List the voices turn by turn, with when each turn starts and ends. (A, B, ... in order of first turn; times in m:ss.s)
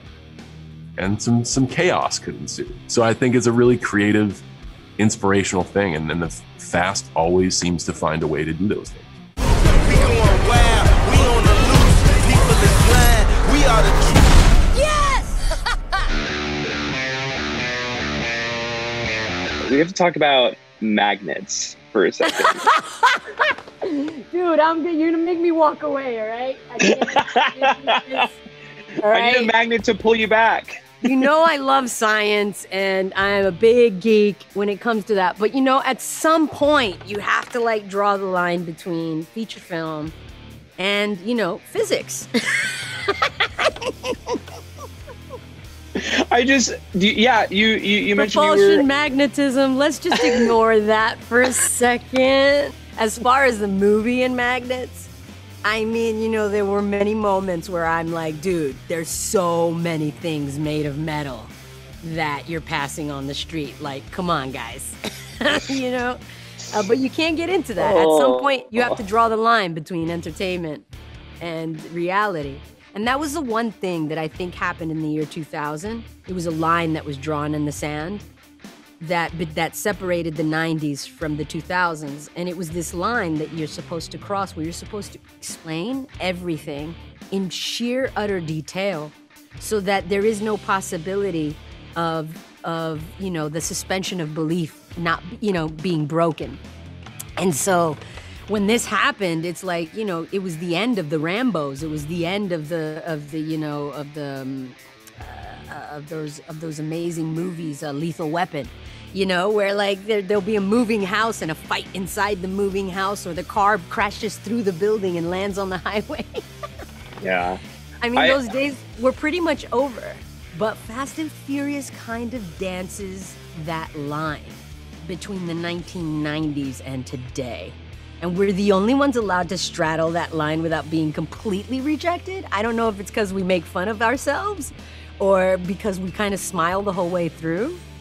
0:01.0-0:04.4 A
0:05.0-0:09.1 A
0:09.8-0:14.3 B
0:14.7-0:16.0 C
0:19.6-0:22.6 D
0:22.3-0:28.4 C
0:26.8-0:28.2 D
0:29.0-0:29.5 C
0:29.1-0:31.2 D
0:31.0-0:40.1 C
0:40.8-0:44.4 C
0:46.0-0:48.8 D
0:48.2-0:55.1 C
0:50.2-0:50.5 D
0:55.6-1:10.9 C
1:07.8-1:09.0 D
1:11.4-1:18.3 C
1:19.0-1:36.6 C
1:37.4-1:56.3 C
1:57.2-1:57.6 D
1:58.0-2:17.8 C